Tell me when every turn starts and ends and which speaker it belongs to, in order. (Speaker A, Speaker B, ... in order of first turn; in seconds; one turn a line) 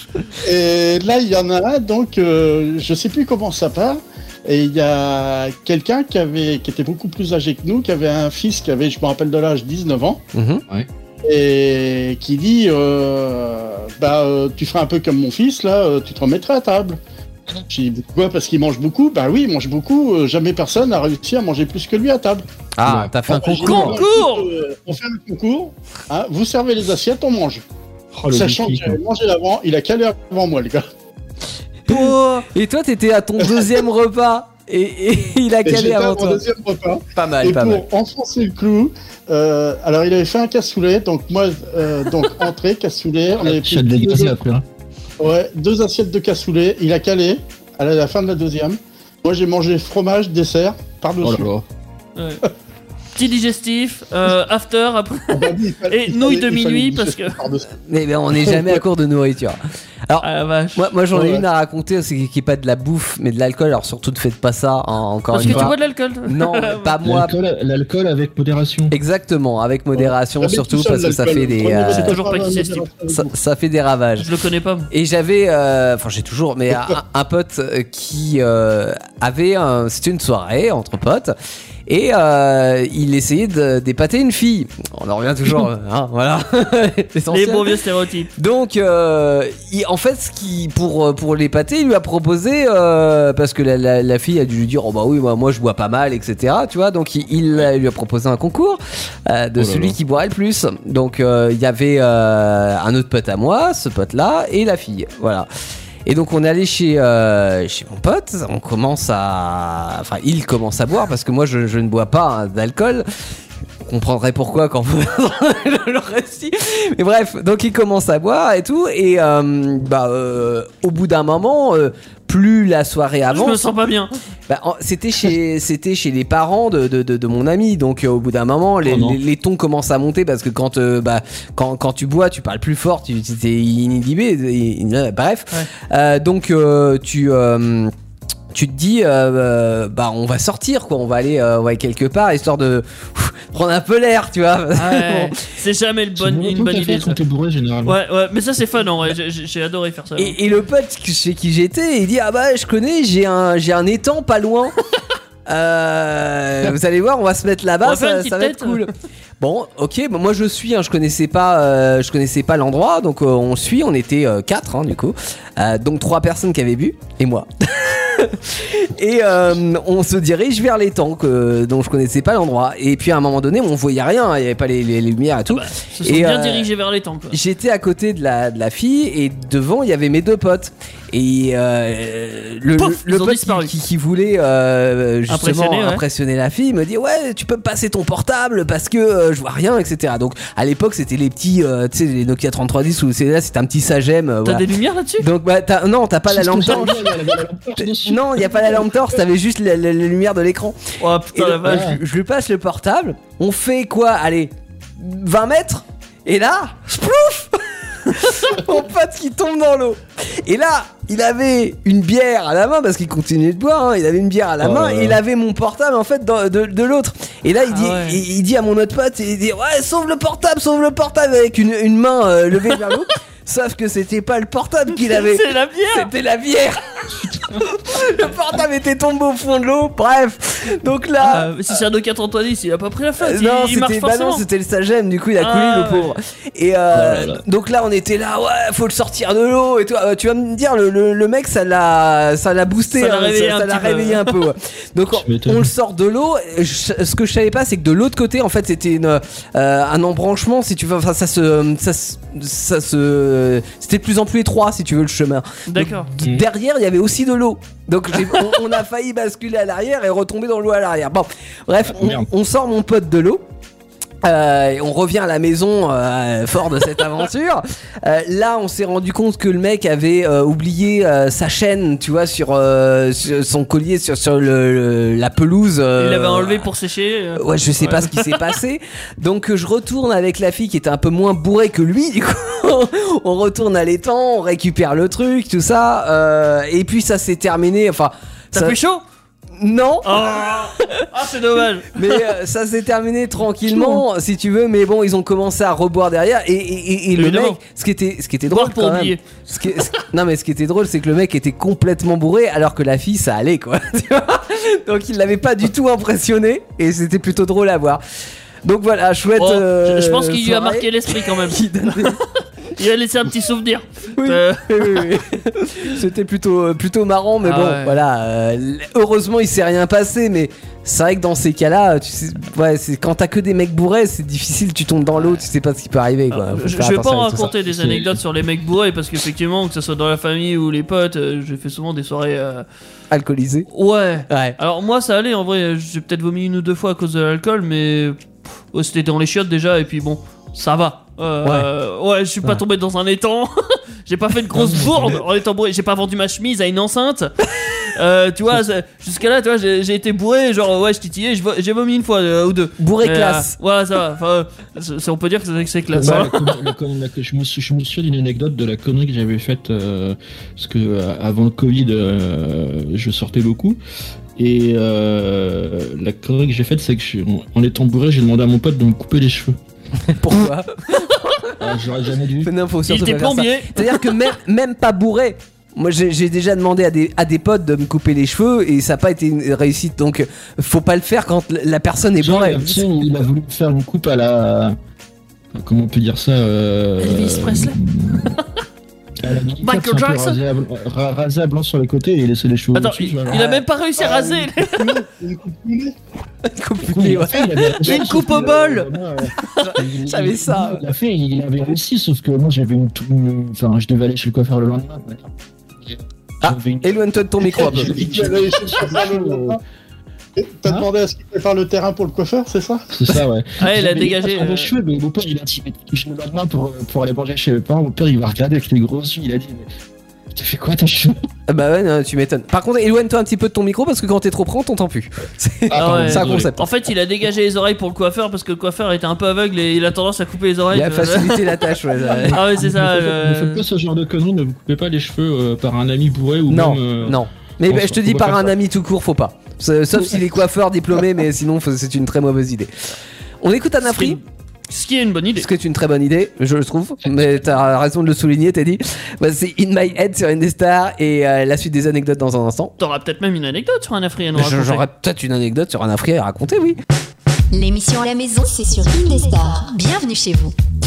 Speaker A: 0.4-10.2
Speaker B: 10.3-10.6
Speaker A: 11.2-17.0
Speaker A: 17.7-22.4
Speaker B: 22.8-24.0
Speaker C: 22.8-23.1
Speaker A: 23.3-27.6
Speaker D: 23.6-24.5
Speaker C: 28.1-29.0
Speaker A: 28.3-30.9
Speaker D: 31.9-32.5
Speaker B: 31.9-36.4
Speaker A: 35.6-44.4
Speaker B: 37.1-37.8
Speaker C: 43.4-44.6
Speaker A: 45.2-51.5
Speaker C: 51.2-51.6
Speaker D: 52.2-52.4
Speaker D: 53.1-57.4
Speaker A: 55.3-57.8
Speaker B: 57.9-67.3
Speaker A: 58.4-58.8
Speaker D: 60.2-60.9
Speaker A: 61.1-61.5
Speaker D: 65.3-66.9
Speaker C: 65.4-65.7
Speaker C: 67.0-69.0
Speaker B: 68.9-72.2
Speaker A: 70.0-73.3
Speaker D: 71.9-72.9
Speaker B: 73.1-74.3
Speaker D: 74.2-74.9
Speaker B: 74.9-81.3
Speaker B: 81.9-87.8
Speaker D: 87.3-88.3
Speaker B: 88.4-105.5
Speaker C: 99.6-100.0
Speaker B: 106.1-113.0
Speaker B: 113.8-123.7
Speaker D: 123.3-124.1
Speaker B: 124.5-137.9
Speaker C: 128.8-129.2
Speaker B: 138.5-145.4
Speaker D: 144.7-147.2
Speaker C: 146.2-148.0
Speaker D: 147.8-150.4
Speaker B: 150.2-154.8
Speaker B: 155.5-176.7
Speaker D: 157.8-158.8
Speaker D: 175.5-177.4
Speaker B: 177.3-194.7
Speaker D: 182.8-183.7
Speaker D: 185.3-186.0
Speaker D: 194.4-195.3
Speaker B: 195.2-197.2
Speaker C: 196.3-198.8
Speaker B: 197.8-231.5
Speaker D: 201.0-202.0
Speaker C: 201.7-202.0
Speaker C: 214.6-215.2
Speaker D: 217.7-218.2
Speaker D: 225.0-226.1
Speaker C: 227.2-227.6
Speaker D: 231.2-234.4
Speaker B: 233.2-263.4
Speaker D: 235.4-236.2
Speaker C: 236.9-237.4
Speaker D: 242.9-244.3
Speaker C: 245.1-245.7
Speaker D: 255.7-256.1
Speaker C: 261.9-262.3
Speaker B: 264.2-276.7
Speaker D: 276.0-278.5
Speaker B: 277.4-288.8
Speaker D: 288.5-289.0
Speaker B: 289.6-290.9
Speaker D: 290.0-292.3
Speaker B: 291.9-308.0
Speaker D: 293.7-293.9
Speaker D: 297.1-297.6
Speaker D: 298.5-299.2
Speaker B: 308.6-312.2
Speaker D: 309.4-315.1
Speaker B: 314.1-327.5
Speaker D: 317.4-318.0
Speaker D: 325.2-325.4
Speaker D: 326.3-332.6
Speaker C: 327.6-328.2
Speaker B: 333.1-333.7
Speaker D: 333.7-356.5
Speaker B: 334.3-334.6
Speaker C: 344.5-345.2
Speaker B: 352.8-353.5
Speaker C: 355.9-363.8
Speaker C: 364.4-369.6
Speaker B: 370.0-371.7
Speaker C: 371.6-372.5
Speaker B: 372.4-382.9
Speaker D: 372.9-374.2
Speaker C: 382.2-384.8
Speaker C: 385.6-388.3
Speaker D: 387.0-388.4
Speaker C: 389.2-393.4
Speaker D: 389.6-390.4
Speaker D: 392.8-395.0
Speaker B: 393.3-393.6
Speaker A: 394.0-395.9
Speaker B: 396.4-398.3
Speaker C: 396.8-409.6
Speaker D: 397.8-399.7
Speaker B: 399.6-400.8
Speaker B: 406.4-408.0
Speaker A: 407.5-409.6
Speaker A: 410.4-412.9
Speaker C: 412.9-419.7
Speaker D: 413.6-414.7
Speaker C: 420.3-421.2
Speaker B: 421.5-426.7
Speaker C: 425.7-426.5
Speaker D: 425.7-433.6
Speaker B: 430.7-432.4
Speaker C: 432.0-438.5
Speaker B: 436.5-442.7
Speaker B: 443.4-444.2
Speaker D: 443.8-445.5
Speaker B: 445.4-452.7
Speaker D: 452.8-454.9
Speaker B: 454.4-456.8
Speaker E: 457.5-460.5